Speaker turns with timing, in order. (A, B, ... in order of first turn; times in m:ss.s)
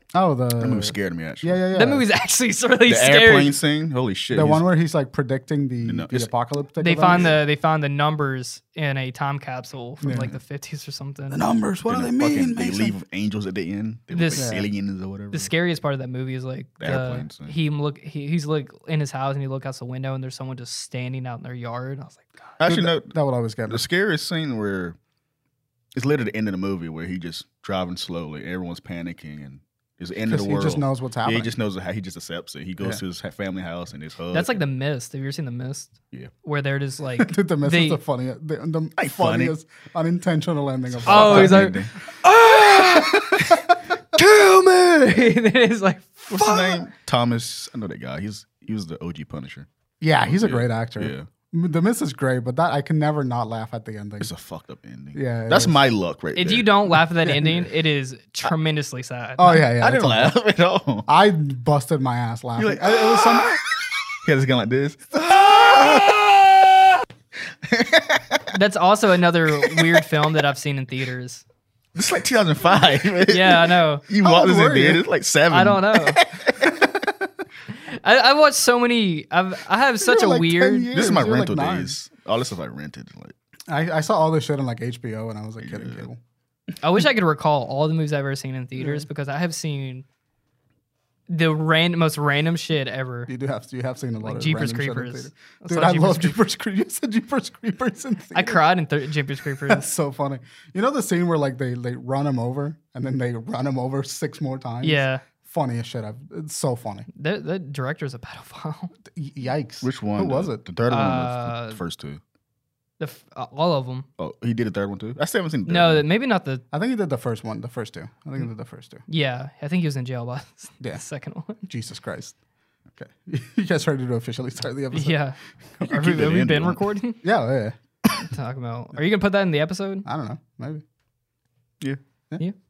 0:00.1-0:02.0 A
0:00.6-0:01.6 B
0:01.7-0:03.6 C
0:02.8-0:04.6 B
0:04.3-0:07.4 A
0:05.8-0:06.3 B
0:06.8-0:11.4 C
0:07.1-0:07.4 B
0:10.0-0:10.4 A
0:11.3-0:13.0 A
0:11.9-0:15.5 B
0:14.1-0:14.7 C
0:14.4-0:14.6 A
0:15.3-0:22.5 C
0:16.8-0:17.5 B
0:22.6-0:23.1 B
0:22.6-0:23.8 A
0:23.7-0:25.0 B
0:25.9-0:34.6 B
0:30.2-0:31.5 A
0:34.3-0:38.0 C
0:37.2-0:41.8 A
0:39.0-0:39.5 B
0:40.9-0:41.9 B
0:41.0-0:43.3 C
0:42.8-0:43.8 A
0:44.1-0:46.8 C
0:46.3-0:49.7 B
0:50.0-0:54.3 A
0:50.3-0:51.3 B
0:54.2-0:57.6 B
0:55.1-0:55.8 A
0:56.4-0:59.6 C
0:59.4-1:00.3 A
0:59.5-1:01.1 B
1:01.1-1:03.6 A
1:02.6-1:06.9 B
1:07.6-1:08.5 B
1:08.5-1:11.4 C
1:09.6-1:10.0 B
1:11.9-1:16.9 B
1:13.3-1:14.0 C
1:14.2-1:15.0 A
1:15.5-1:16.2 C
1:17.7-1:20.9 C
1:20.0-1:22.0 A
1:20.9-1:23.3 B
1:23.7-1:26.2 A
1:25.6-1:26.1 B
1:26.8-1:30.0 C
1:28.8-1:29.0 A
1:31.3-1:33.3 C
1:33.3-1:38.6 A
1:34.2-1:36.4 C
1:38.3-1:39.9 C
1:39.6-1:47.1 A
1:44.8-1:45.2 C
1:47.1-1:48.9 C
1:49.1-1:50.6 A
1:49.8-1:52.2 B
1:50.9-1:51.8 C
1:53.0-1:54.1 C
1:54.2-1:56.0 B
1:55.6-1:56.6 C
1:56.7-1:59.0 A
1:59.1-2:01.6 C
2:01.6-2:02.4 A
2:02.9-2:05.2 A
2:04.9-2:07.2 C
2:05.8-2:06.8 B
2:07.2-2:07.8 A
2:08.2-2:10.0 C
2:10.0-2:10.8 A